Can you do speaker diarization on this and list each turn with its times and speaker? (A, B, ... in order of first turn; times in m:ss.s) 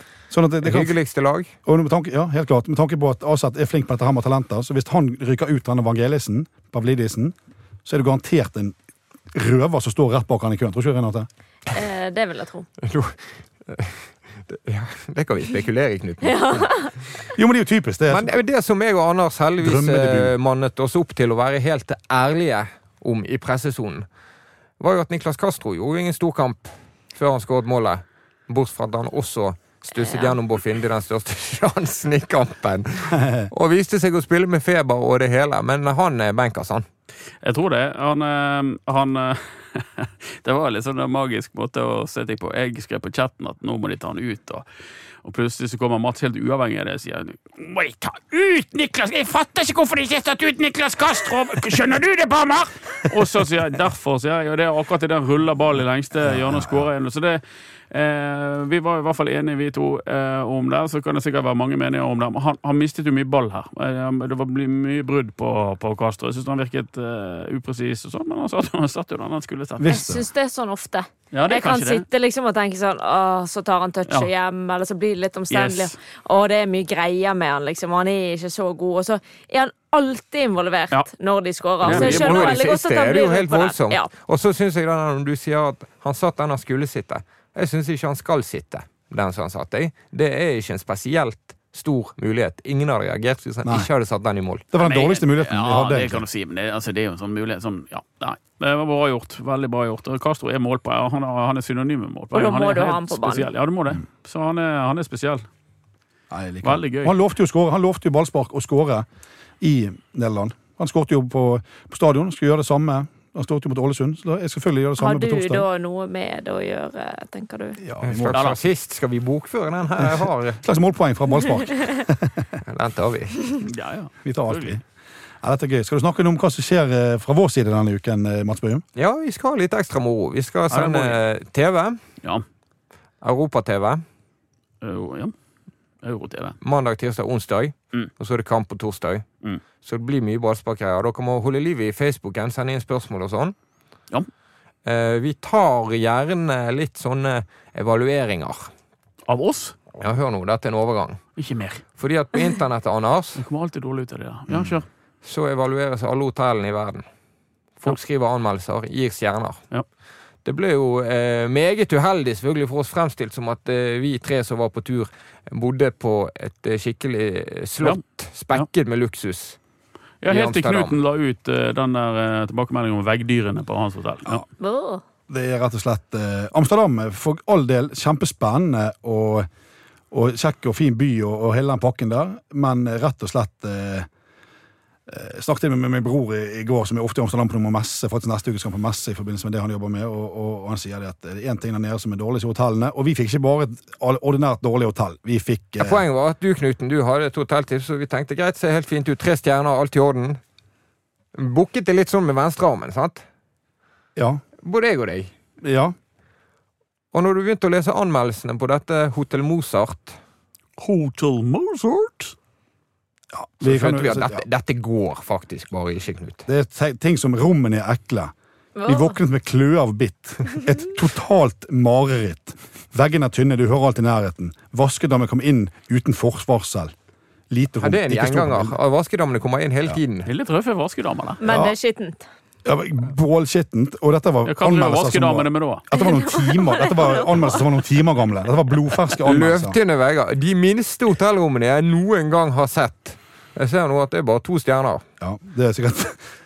0:00.3-0:00.9 A
0:00.6-0:01.5 B
0:01.6-0:08.8 A
0:09.3-0:11.3 A
0:11.7-0:12.7 C
0:12.8-0:16.7 B
0:16.2-0:16.9 C
0:17.4-0:18.3 A
0:18.1-0:24.1 B
0:19.6-0:20.3 A
0:24.8-0:36.9 B
0:30.0-0:30.4 C
0:33.1-0:33.5 A
0:37.4-0:44.7 D
0:45.2-1:10.0 D
0:56.2-0:56.9 A
1:09.8-1:10.3 A
1:09.9-1:24.1 C
1:11.3-1:12.0 D
1:15.5-1:16.0 D
1:21.8-1:22.6 D
1:21.8-1:34.6 B
1:33.6-1:33.9 A
1:34.7-1:36.2 A
1:34.8-1:45.5 D
1:42.3-1:43.5 C
1:46.3-1:49.1 A
1:46.6-1:47.2 D
1:49.6-1:55.7 A
1:55.0-1:57.8 C
1:57.8-1:58.6 A
1:58.0-2:00.6 B
1:58.3-1:58.6 D
2:00.0-2:02.6 A
2:02.7-2:03.5 B
2:03.6-2:04.8 D
2:04.2-2:04.8 A
2:05.4-2:08.8 A
2:09.0-2:12.0 B
2:10.7-2:11.2 D
2:13.2-2:14.0 B
2:14.8-2:15.3 D
2:16.0-2:16.6 D
2:16.6-2:19.2 B
2:19.8-2:23.6 B
2:24.8-2:28.7 B
2:29.3-2:29.8 D
2:30.0-2:31.2 B
2:31.4-2:31.8 D
2:32.0-2:33.4 B
2:33.4-2:34.9 D
2:34.5-2:34.7 A
2:35.2-2:37.0 B
2:37.8-2:39.6 B
2:40.4-2:49.6 B
2:50.2-2:54.4 D
2:50.3-2:51.0 B
2:54.6-2:55.0 C
2:55.3-2:59.5 A
3:00.1-3:04.1 A
3:05.1-3:16.0 A
3:15.8-3:20.4 B
3:21.4-3:23.2 B
3:24.2-3:24.4 A
3:24.6-3:25.3 B
3:25.6-3:26.0 A
3:27.1-3:30.2 B
3:30.8-3:32.4 D
3:33.3-3:34.4 A
3:33.6-3:36.4 B
3:36.5-3:38.3 A
3:38.8-3:39.2 C
3:38.8-3:46.9 A
3:47.5-3:48.8 A
3:47.8-3:50.3 B
3:50.2-3:51.4 D
3:51.4-3:52.3 C
3:51.4-3:51.8 A
3:52.6-3:59.8 A
3:54.5-3:55.8 D
3:55.9-3:57.7 C
3:59.2-4:05.0 B
4:05.2-4:06.2 A